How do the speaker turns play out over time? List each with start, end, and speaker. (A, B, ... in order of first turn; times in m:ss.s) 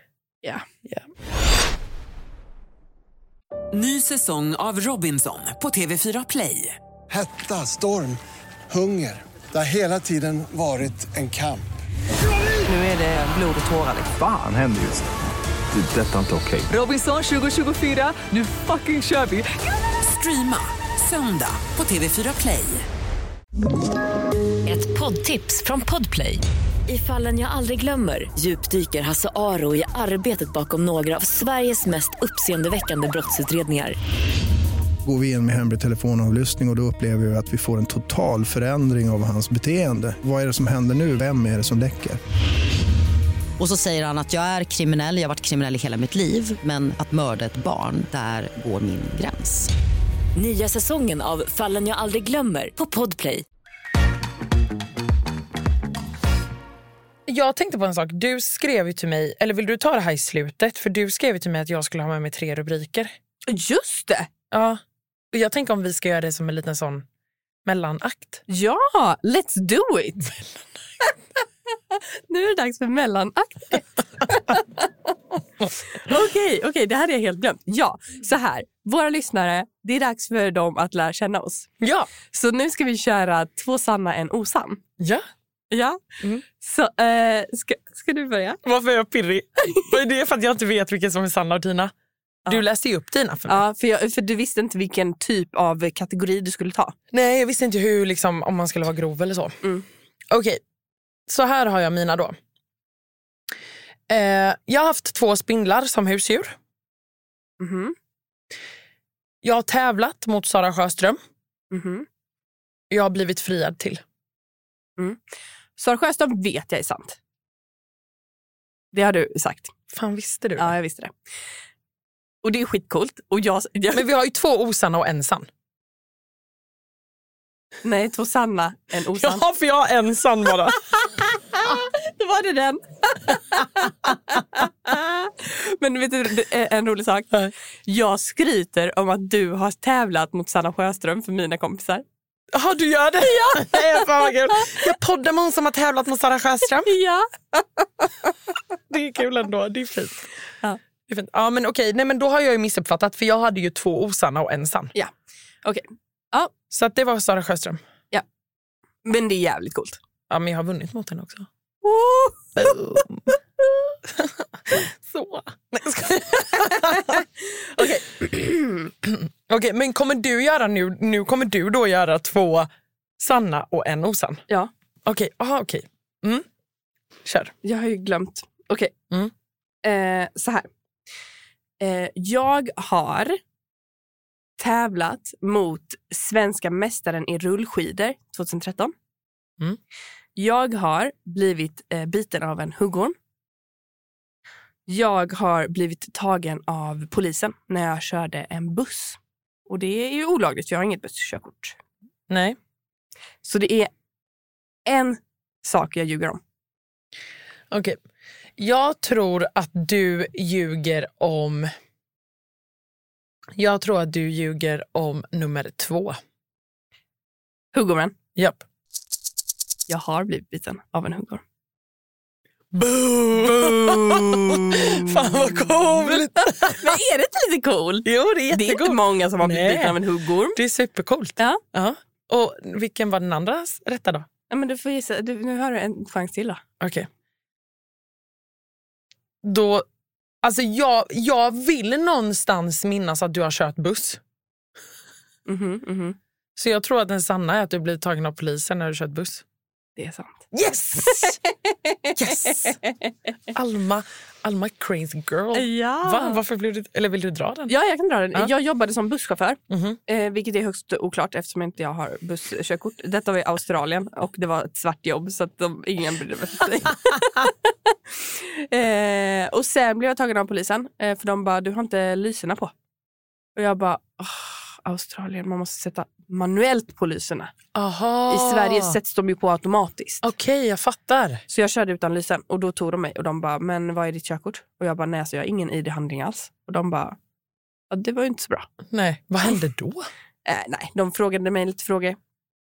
0:03.7-0:06.8 A
0:07.1-0:08.2 B
0:08.7-0:11.7 B
0:12.7-0:14.0 C
0:14.1-0:15.0 D
0:15.7-0:16.7 D
0:16.7-0:19.6 E
0:20.0-0:22.8 A
0:24.6-0:34.0 E
0:35.0-0:42.2 F
0:43.6-0:49.7 G
0:50.4-0:53.4 E
0:57.3-1:03.1 H
1:03.5-1:04.3 C
1:04.5-1:04.8 H
1:05.3-1:07.0 H
1:07.6-1:08.4 H
1:08.5-1:10.3 C
1:11.9-1:15.1 C
1:15.9-1:21.7 C
1:21.8-1:22.1 H
1:22.3-1:24.8 C
1:25.0-1:25.2 H
1:25.7-1:26.0 C
1:26.5-1:28.6 C
1:28.6-1:31.9 H
1:32.5-1:33.6 H
1:33.5-1:36.9 C
1:37.1-1:39.6 H
1:40.3-1:40.6 H
1:41.3-1:42.4 H
1:44.1-1:46.5 H
1:47.6-1:47.9 C
1:49.4-1:51.2 H
1:51.7-1:52.0 C
1:52.9-1:54.0 H
1:55.8-1:57.2 C
1:58.9-1:59.7 C
1:59.9-2:00.7 H
2:00.6-2:01.1 C
2:02.4-2:04.0 C
2:03.9-2:05.5 H
2:07.8-2:09.4 C
2:09.1-2:10.8 H
2:11.2-2:17.3 C
2:17.9-2:22.0 C
2:22.5-2:26.9 H
2:23.2-2:24.8 C
2:26.8-2:28.3 C
2:28.9-2:30.2 H
2:31.1-2:34.9 H
2:35.6-2:36.5 C
2:36.7-2:37.8 H
2:39.0-2:40.0 C
2:40.3-2:41.5 H
2:41.8-2:43.0 C
2:42.6-2:43.2 H
2:44.1-2:47.2 H
2:46.6-2:48.9 C
2:49.0-2:54.4 H
2:55.0-2:56.4 H
2:57.2-2:57.5 H
2:57.6-2:58.9 C
2:59.8-3:00.7 C
3:01.8-3:03.4 C
3:04.6-3:08.9 C
3:10.4-3:13.1 C
3:14.9-3:21.8 C
3:22.3-3:22.6 H
3:23.4-3:23.9 C
3:24.8-3:26.4 C
3:27.7-3:28.0 H
3:28.6-3:31.7 H
3:33.6-3:36.2 H
3:37.7-3:38.1 C
3:38.4-3:38.6 H
3:39.9-3:41.4 C
3:42.7-3:47.0 H
3:43.6-3:45.2 C
3:46.0-3:50.6 C
3:48.0-3:50.0 H
3:50.5-3:54.3 H
3:54.5-3:56.6 C
3:56.8-3:57.1 H
3:59.4-3:59.8 H
4:00.4-4:04.2 H
4:05.4-4:06.2 C
4:06.6-4:09.4 H
4:10.0-4:10.4 C
4:10.5-4:11.4 H
4:11.0-4:13.1 C
4:12.2-4:12.8 H
4:13.5-4:17.7 H
4:15.5-4:16.4 C
4:17.7-4:32.7 C
4:19.7-4:20.0 H
4:33.6-4:37.5 C
4:37.7-4:39.0 H
4:38.3-4:40.2 C
4:40.2-4:41.4 H
4:41.5-4:47.2 C
4:47.9-4:48.7 C
4:48.9-4:50.1 H
4:50.4-4:52.2 C